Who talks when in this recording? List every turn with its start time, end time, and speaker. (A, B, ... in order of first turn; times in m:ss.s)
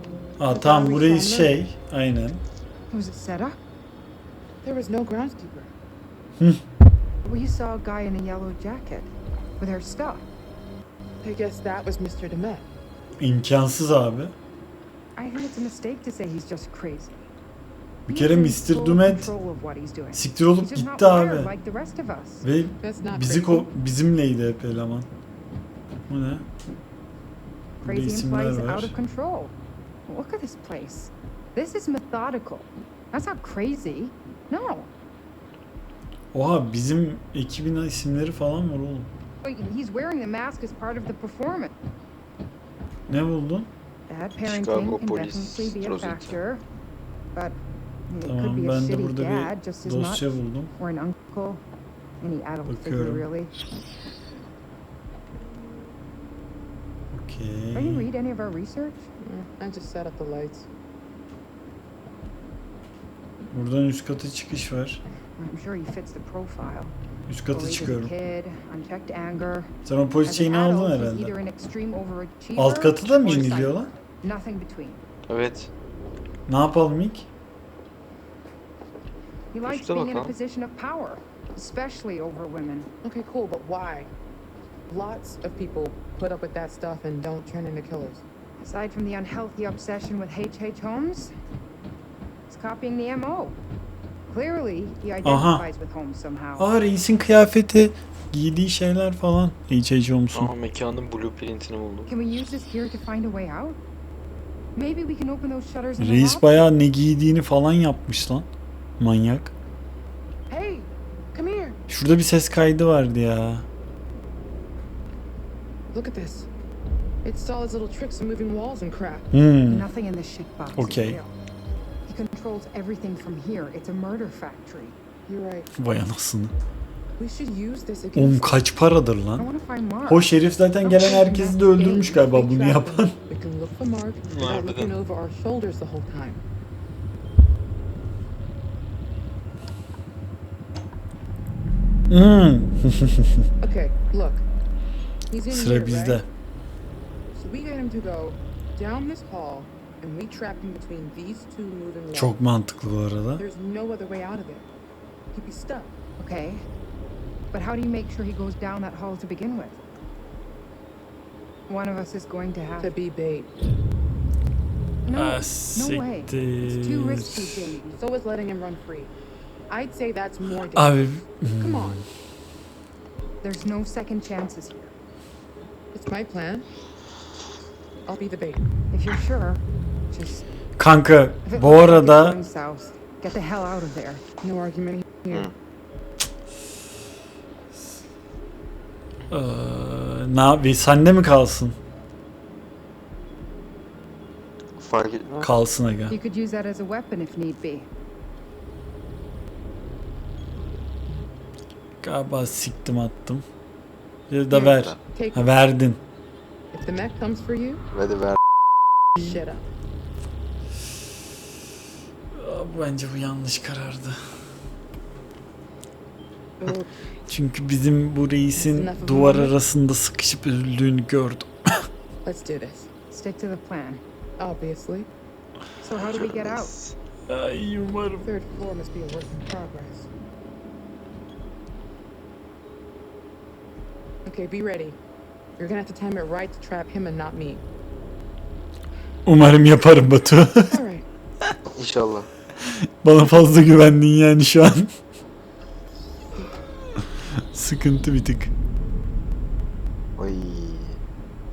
0:00.4-0:02.4 A
0:00.5-0:01.6 B
0:02.9-0:03.6 C
0:04.6-0:05.7 B
0:07.2-0:10.3 C
0:11.2-0:12.7 B
0:13.2-0:14.3 A
0:15.2-0:17.2 C
0:18.1-0:19.3 A
0:18.1-0:22.4 C
0:20.1-0:21.5 A
0:22.4-0:25.1 A
0:22.8-0:23.7 B
0:26.1-0:26.4 A
0:27.8-0:29.5 C
0:27.8-0:28.9 A
0:30.1-0:34.9 C
0:36.3-0:39.1 A
0:39.4-0:41.7 C
0:43.1-0:43.7 A
0:44.1-0:46.6 C
0:44.4-0:46.4 D
0:48.1-0:51.6 C
0:48.2-0:50.7 A
0:52.2-0:53.5 C
0:52.7-0:53.3 A
0:57.1-0:58.1 A
0:57.7-0:59.1 C
0:59.2-1:00.7 B
1:03.5-1:05.0 A
1:05.4-1:06.9 C
1:07.3-1:08.1 A
1:07.5-1:09.7 C
1:09.8-1:11.3 A
1:10.2-1:15.0 C
1:12.6-1:13.9 A
1:15.3-1:15.7 D
1:16.5-1:17.3 A
1:19.5-1:22.9 C
1:19.6-1:20.3 D
1:23.0-1:24.1 B
1:24.9-1:28.2 B
1:28.6-1:31.3 C
1:32.5-1:33.6 C
1:34.3-1:36.7 C
1:35.2-1:35.7 A
1:36.6-1:40.5 A
1:40.3-1:42.1 D
1:42.1-1:43.8 C
1:44.8-1:46.7 C
1:46.0-1:48.5 A
1:49.0-1:49.5 A
1:50.5-1:51.8 B
1:51.9-1:53.7 A
1:55.9-1:56.5 B
1:57.2-1:59.3 B
1:59.3-1:59.9 A
1:59.7-2:01.3 C
2:00.8-2:01.2 A
2:02.1-2:05.0 C
2:05.3-2:05.7 B
2:05.8-2:06.5 A
2:07.2-2:08.6 B
2:08.1-2:09.5 A
2:09.4-2:12.2 C
2:10.1-2:13.2 A
2:11.8-2:16.4 B
2:14.3-2:14.9 D
2:22.1-2:23.5 A
2:23.6-2:24.4 B
2:25.3-2:26.2 B
2:25.5-2:26.3 A
2:27.3-2:32.4 B
2:32.1-2:33.5 A
2:33.4-2:34.7 B
2:35.3-2:35.9 B
2:36.2-2:36.6 C
2:37.5-2:39.8 C
2:41.7-2:43.0 C
2:42.8-2:43.5 B
2:45.1-2:48.0 C
2:45.1-2:47.8 A
2:48.0-2:49.1 B
2:49.7-2:52.0 B
2:50.8-2:52.1 A
2:53.4-2:54.9 C
2:55.9-2:56.7 B
2:58.1-2:58.7 B
2:58.9-3:00.4 C
3:00.8-3:02.4 A
3:01.4-3:04.2 C
3:04.4-3:05.5 B
3:09.3-3:11.8 A
3:14.8-3:15.5 D
3:15.4-3:16.2 A
3:16.1-3:17.9 C
3:22.0-3:23.4 A
3:24.3-3:26.0 A
3:24.5-3:25.5 B
3:26.7-3:27.8 B
3:27.9-3:28.4 D
3:29.2-3:29.6 B
3:32.3-3:34.2 A
3:36.6-3:37.2 B
3:37.3-3:41.9 A
3:38.6-3:39.5 B
3:42.2-3:42.9 B
3:43.1-3:44.0 C
3:44.4-3:45.1 B
3:45.8-3:46.7 C
3:46.1-3:47.0 D
3:47.3-3:48.3 A
3:48.2-3:50.1 B
3:54.2-3:55.0 B
3:55.6-3:57.6 B
3:59.3-4:00.8 A
4:00.7-4:01.1 B
4:01.7-4:02.3 D
4:02.6-4:04.9 A
4:06.3-4:06.6 B
4:07.4-4:08.5 A
4:10.2-4:11.0 D